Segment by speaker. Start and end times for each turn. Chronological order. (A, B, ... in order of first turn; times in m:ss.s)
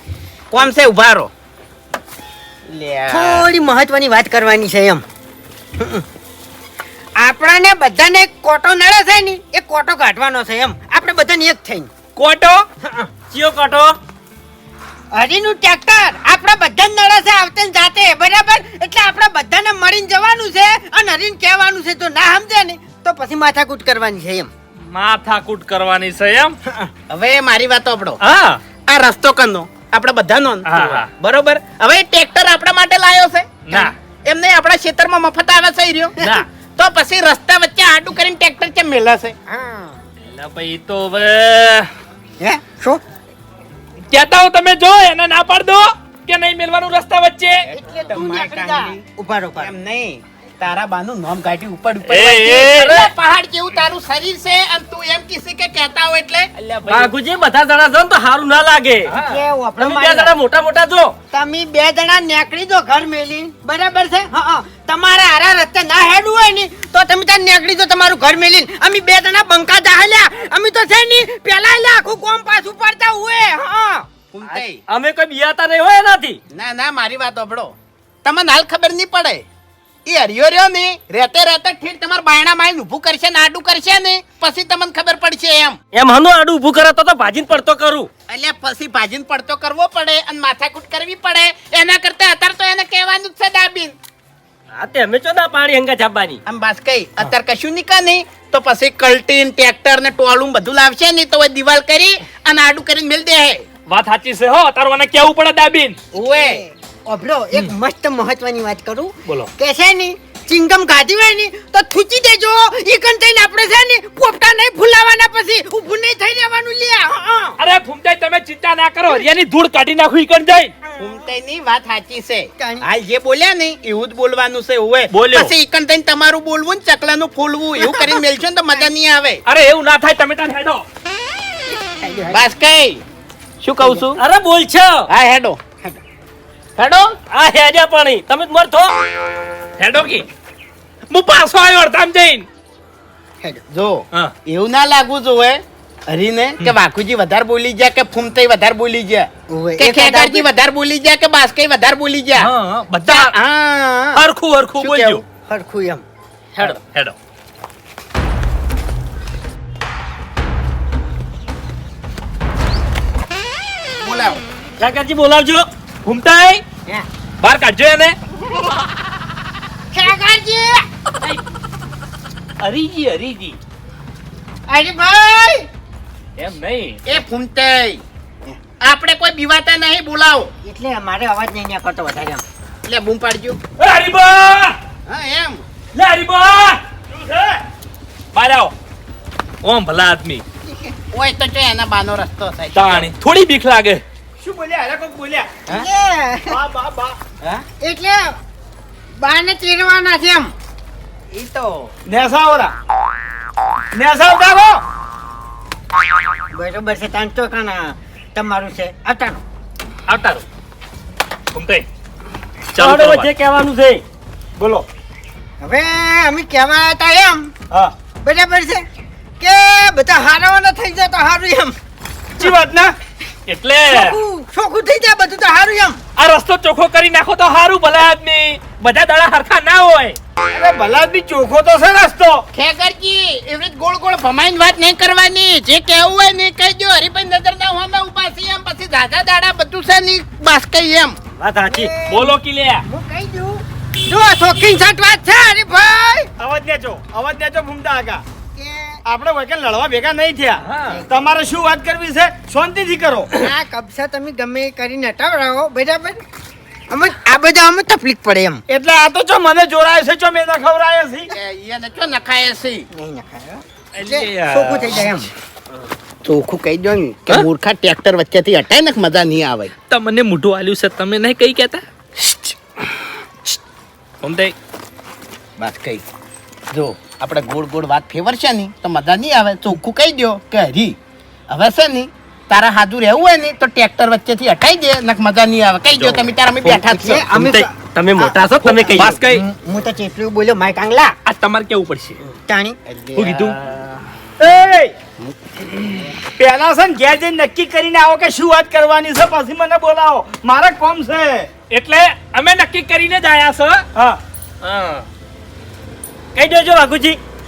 0:00.5-0:01.3 A
0:02.7-0:03.4 A
0:03.1-0:05.0 B
0:05.8-0:06.0 B
0:07.2-0:11.9 B
0:12.2-0:12.6 C
0:12.8-0:13.1 B
0:13.3-0:14.0 D
0:15.1-0:24.5 B
0:24.9-0:26.6 C
0:26.7-0:26.9 B
0:27.1-0:28.2 A
0:28.2-0:28.6 C
0:28.9-0:36.2 A
0:30.7-0:31.1 C
0:33.7-0:33.9 C
0:36.2-0:36.4 C
0:36.8-0:39.4 A
0:39.5-0:40.0 B
0:40.2-0:41.9 C
0:42.4-0:43.0 B
0:44.1-0:47.7 C
0:47.7-0:49.0 A
0:47.8-0:49.7 B
0:49.6-0:57.1 A
0:52.0-0:53.1 C
0:56.9-0:59.1 D
0:59.1-0:59.4 C
0:59.2-1:00.3 B
0:59.8-1:01.2 D
1:01.3-1:14.1 B
1:14.3-1:14.8 A
1:14.5-1:16.4 D
1:16.5-1:19.4 A
1:20.0-1:25.8 A
1:25.9-1:28.1 D
1:28.3-1:34.0 A
1:34.7-1:36.4 D
1:36.5-1:43.6 A
1:43.9-1:46.0 C
1:46.1-1:46.6 A
1:46.2-1:57.6 B
1:57.6-2:00.7 C
2:01.0-2:09.4 A
2:02.6-2:02.9 B
2:05.1-2:05.5 C
2:07.8-2:08.2 B
2:09.5-2:10.8 C
2:11.7-2:12.4 B
2:12.3-2:13.0 A
2:13.6-2:14.2 A
2:14.2-2:15.1 D
2:15.1-2:15.6 A
2:16.8-2:17.2 A
2:17.3-2:18.9 D
2:19.8-2:20.3 C
2:21.1-2:22.5 C
2:23.7-2:32.5 A
2:29.5-2:30.5 B
2:32.4-2:33.4 C
2:33.0-2:34.2 A
2:34.2-2:35.2 C
2:34.8-2:35.2 A
2:35.4-2:36.0 B
2:36.6-2:37.2 C
2:44.0-2:44.4 A
2:44.8-2:45.7 D
2:46.0-2:46.6 C
2:47.4-2:48.2 C
2:49.9-2:50.9 B
2:52.6-2:53.6 C
2:54.7-2:55.7 B
2:56.4-2:57.0 C
2:57.1-2:58.0 A
2:58.8-3:00.5 A
3:00.6-3:02.4 B
3:02.8-3:03.6 A
3:03.8-3:04.8 C
3:05.1-3:05.6 A
3:06.0-3:06.8 C
3:07.1-3:07.6 E
3:08.3-3:08.7 C
3:09.6-3:10.4 C
3:10.7-3:10.9 B
3:11.1-3:13.1 A
3:12.8-3:14.0 C
3:14.4-3:15.7 E
3:15.7-3:16.6 B
3:16.5-3:17.6 E
3:17.8-3:18.4 B
3:19.2-3:20.5 B
3:21.3-3:21.9 A
3:22.1-3:22.7 E
3:24.0-3:24.8 E
3:26.5-3:29.4 B
3:30.1-3:30.4 C
3:31.5-3:31.9 C
3:32.7-3:33.3 C
3:32.8-3:34.0 D
3:34.6-3:34.8 E
3:35.6-3:37.5 B
3:38.2-3:38.8 B
3:39.4-3:41.8 B
3:42.4-3:42.9 E
3:43.5-3:44.2 C
3:43.9-3:46.0 B
3:46.2-3:50.2 C
3:50.5-3:52.4 E
3:52.5-4:01.2 A
4:01.4-4:01.9 D
4:01.7-4:06.3 B
4:02.1-4:02.9 C
4:06.4-4:08.2 E
4:08.6-4:09.0 B
4:09.0-4:13.3 E
4:10.6-4:11.0 C
4:10.9-4:11.2 B
4:13.3-4:16.2 B
4:16.9-4:18.6 B
4:18.7-4:21.3 E
4:21.3-4:22.9 A
4:22.9-4:25.3 B
4:24.0-4:25.0 C
4:26.2-4:29.7 A
4:29.9-4:31.8 C
4:34.2-4:34.5 C
4:35.6-4:36.0 A
4:36.7-4:41.0 A
4:41.5-4:47.3 A
4:46.6-4:51.2 B
4:47.4-4:49.2 D
4:48.9-4:49.4 C
4:51.2-4:52.2 C
4:52.4-4:52.8 B
4:52.9-4:53.5 A
4:53.2-4:53.7 C
4:54.4-4:55.0 E
4:56.4-5:01.5 E
5:01.7-5:03.9 C
5:04.6-5:05.0 D
5:06.4-5:07.2 D